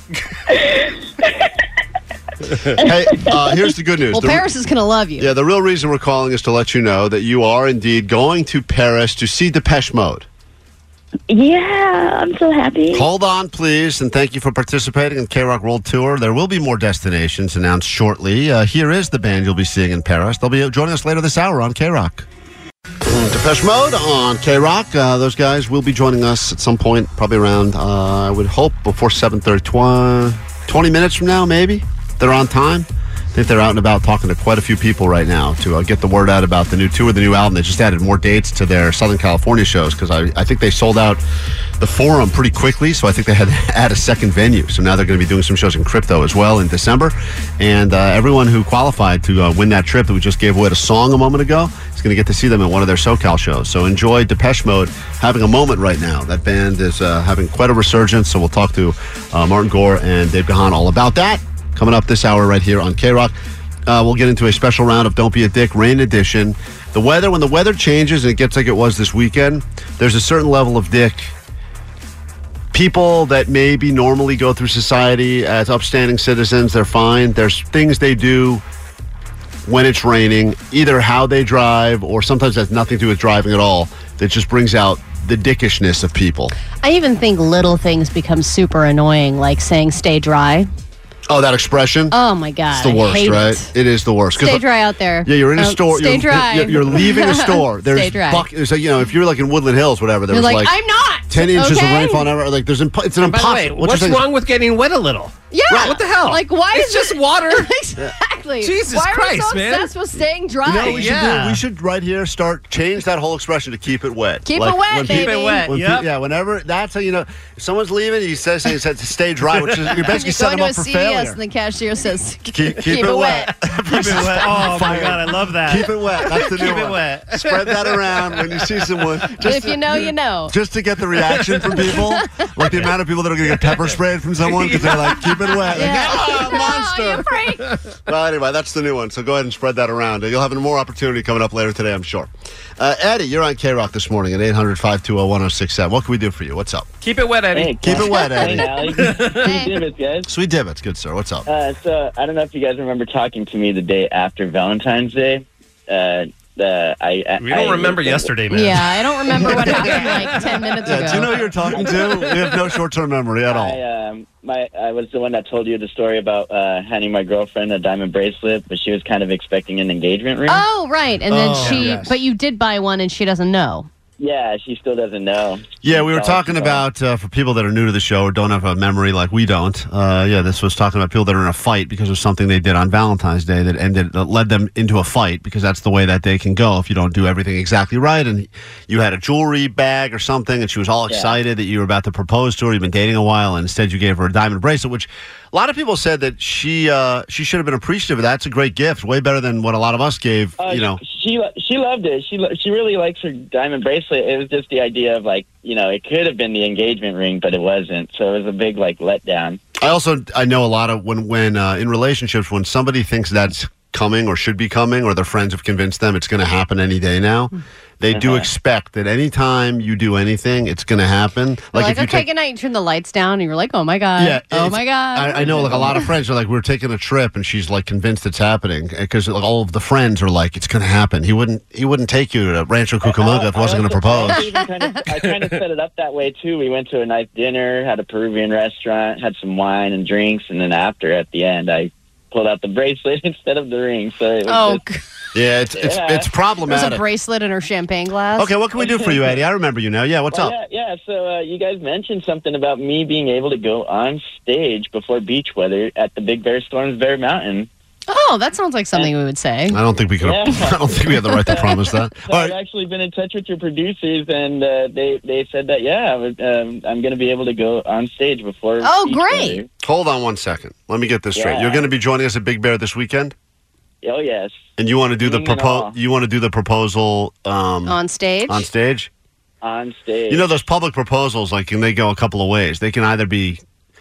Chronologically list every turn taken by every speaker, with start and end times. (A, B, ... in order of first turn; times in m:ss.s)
0:00.5-0:01.5 A
0:02.7-0:04.5 B
0:02.7-0:03.3 A
0:04.1-0:05.3 C
0:05.2-0:10.2 B
0:11.3-0:13.1 A
0:12.9-0:22.2 B
0:23.0-0:41.2 B
0:41.8-1:03.3 B
1:03.9-1:11.3 B
1:12.7-1:18.6 B
1:19.6-1:26.5 B
1:26.8-1:30.7 C
1:31.3-1:32.2 B
1:32.1-1:33.7 C
1:32.7-1:34.7 B
1:34.4-1:38.5 C
1:35.2-1:40.8 B
1:40.3-1:42.3 C
1:41.3-1:44.3 B
1:43.2-1:47.7 D
1:45.5-1:51.1 C
1:45.7-1:46.0 B
1:48.6-1:49.9 D
1:50.6-2:01.4 B
1:50.8-1:51.6 D
1:54.4-1:55.7 C
1:55.0-1:56.1 D
2:00.0-2:03.5 C
2:02.5-2:09.8 B
2:03.8-2:09.0 D
2:09.4-2:10.5 C
2:10.5-2:17.4 B
2:11.8-2:12.5 C
2:14.5-2:16.4 D
2:15.6-2:17.7 C
2:17.7-2:17.9 D
2:18.0-2:26.9 B
2:27.0-2:28.4 D
2:27.5-2:30.3 E
2:27.8-2:28.7 B
2:28.1-2:28.8 C
2:29.0-2:29.6 D
2:29.3-2:29.7 C
2:30.2-2:31.5 B
2:31.5-2:38.3 E
2:37.4-2:42.2 D
2:38.5-2:41.3 C
2:40.8-2:43.8 B
2:43.5-2:50.6 E
2:50.5-2:53.9 C
2:51.3-2:52.1 B
2:51.6-2:51.8 D
2:54.2-2:56.8 E
2:55.8-3:21.0 B
3:11.1-3:11.3 E
3:20.6-3:29.6 E
3:29.8-3:42.2 B
3:38.1-3:38.5 E
3:41.7-3:46.0 C
3:44.2-3:54.5 B
3:45.4-3:46.0 E
3:53.0-4:04.8 E
3:54.3-3:55.0 C
4:04.5-4:05.0 C
4:05.3-4:07.0 B
4:05.8-4:06.3 E
4:06.7-4:08.5 C
4:08.4-4:10.5 B
4:08.8-4:09.4 E
4:10.3-4:17.7 E
4:18.1-4:19.8 C
4:19.7-4:22.6 B
4:20.2-4:29.7 E
4:28.8-4:29.6 C
4:29.8-4:33.3 B
4:31.3-4:31.8 E
4:34.0-4:34.5 E
4:34.8-4:39.1 B
4:35.2-4:35.9 E
4:37.9-4:38.7 C
4:39.6-4:40.4 E
4:40.3-4:43.6 B